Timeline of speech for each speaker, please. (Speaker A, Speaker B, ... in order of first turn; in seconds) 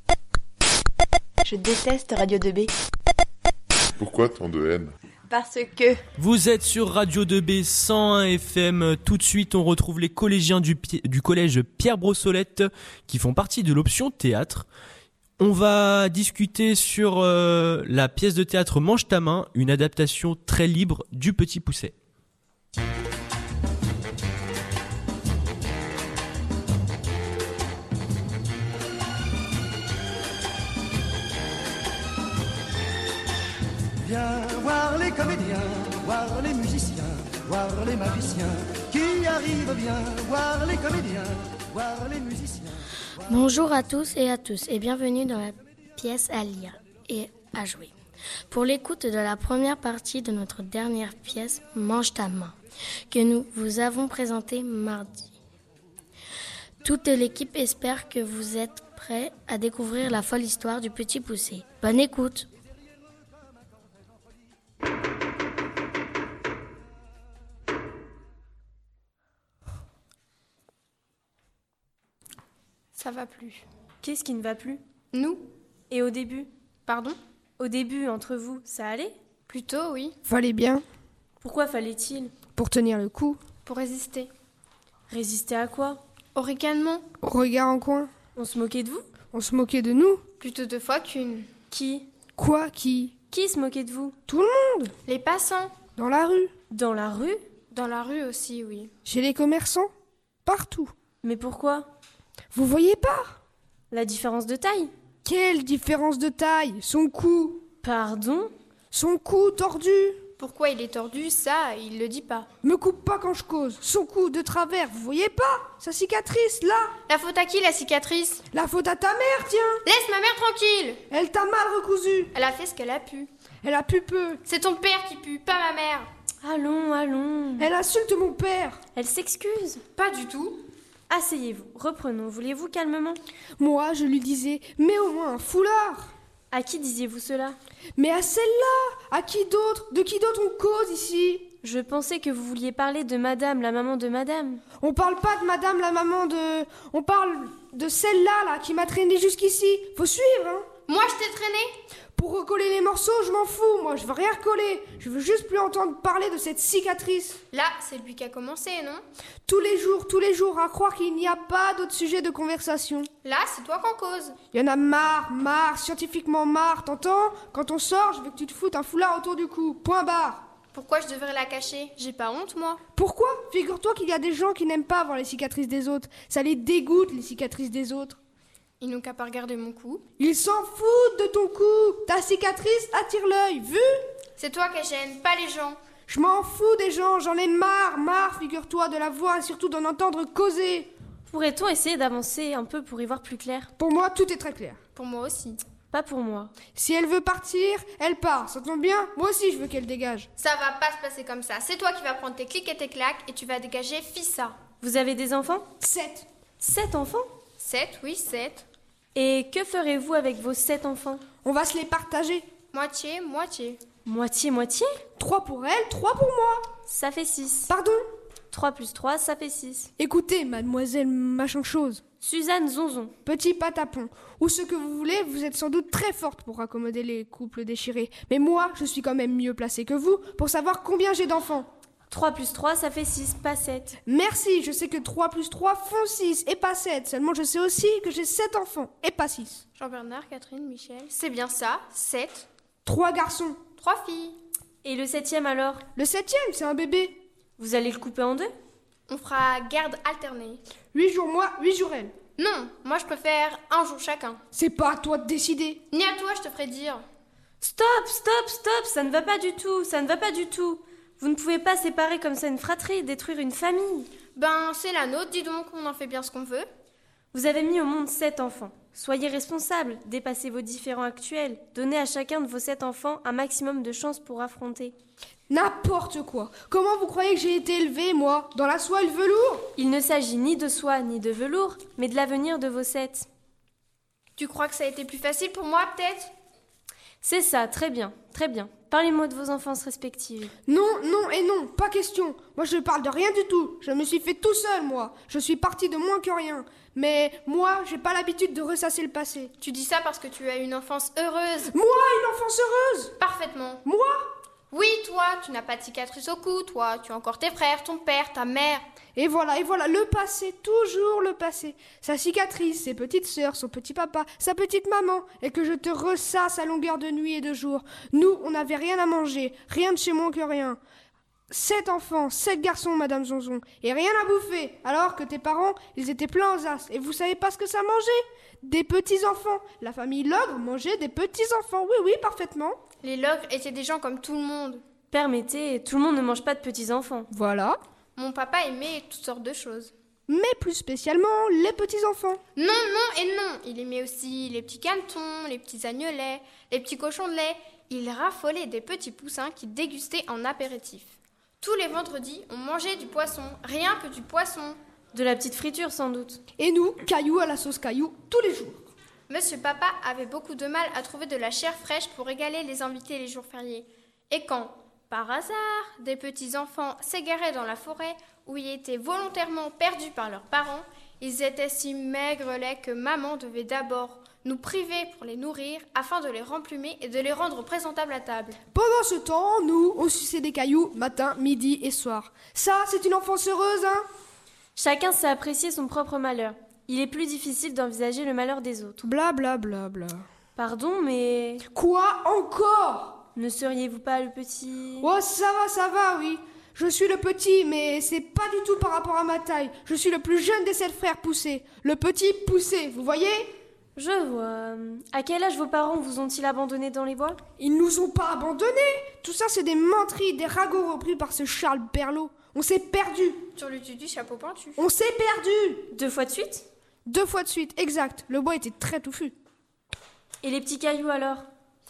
Speaker A: 1.5-2.7, 5.3-6.0
Speaker B: 4.0-4.9, 34.1-42.7
Speaker C: 6.2-14.7, 15.4-21.9
Speaker D: 43.3-47.9, 48.5-52.5, 53.1-55.3, 56.8-62.5
Speaker E: 72.9-73.6, 75.1-75.5, 76.9-77.2, 79.5-80.1, 83.6-84.3, 86.3-87.0, 90.4-91.5, 95.0-95.8, 97.7-98.9, 110.4-112.5, 117.1-118.4, 119.8-121.0, 122.3-123.3, 124.4-126.1, 129.9-130.6, 150.9-151.7, 157.5-159.0, 163.2-164.4, 170.7-172.8, 178.8-180.0, 184.4-185.8, 194.9-195.6, 200.4-204.6, 207.6-208.7, 212.7-213.8, 239.8-242.5, 243.8-244.3, 249.1-250.6, 252.4-254.4, 255.9-257.0, 264.3-266.6, 284.4-286.3, 299.6-301.7, 303.2-303.8, 304.7-308.8, 333.0-334.8, 338.1-339.9, 342.6-354.8, 359.3-378.6, 413.5-414.8
Speaker F: 74.0-74.8, 75.9-76.5, 77.6-79.1, 81.4-82.3, 85.1-86.0, 88.3-89.0, 91.7-92.1, 93.3-94.1, 96.7-97.5, 101.2-101.9, 103.9-104.9, 107.8-108.5, 126.4-127.7, 128.9-129.8, 131.1-133.2, 136.5-137.6, 141.6-144.6, 191.3-193.7, 195.9-196.5, 204.8-205.6, 206.6-207.2, 209.1-211.2, 214.0-214.8, 216.9-217.7, 218.5-219.9, 222.2-223.1, 232.1-233.9, 244.8-245.8, 247.6-248.5, 257.6-264.1, 267.3-274.9, 279.8-283.2, 287.2-290.5, 335.1-337.3, 355.1-356.4, 384.8-389.1, 390.6-391.6, 393.4-395.1, 403.9-407.4, 415.9-416.6, 420.4-421.4
Speaker G: 80.3-80.8, 82.5-83.4, 87.2-88.1, 89.3-90.2, 92.4-93.1, 94.3-94.9, 96.0-96.5, 99.0-99.9, 100.4-100.9, 102.5-103.4, 105.2-107.6, 108.9-110.2, 112.6-116.9, 118.5-119.8, 121.1-122.3, 123.6-124.4, 127.6-128.8, 133.6-136.1, 137.9-141.5, 144.8-150.7, 152.2-157.4, 159.5-163.1, 164.5-170.4, 172.9-178.2, 180.2-183.9, 186.1-190.9, 193.8-194.8, 196.8-200.3, 205.8-206.2, 211.4-212.4, 215.2-216.7, 217.7-218.0, 220.0-222.0, 223.2-231.7, 234.1-239.6, 242.8-243.6, 245.9-247.2, 250.9-252.1, 254.5-255.8, 275.5-279.7, 290.7-299.5, 301.7-303.1, 303.8-304.2, 309.1-320.8, 321.5-332.8, 337.3-337.8, 340.3-342.4, 356.6-358.9, 378.7-384.0, 389.0-390.2, 391.7-393.2, 395.0-403.5, 407.6-413.4, 414.8-415.9, 417.1-419.3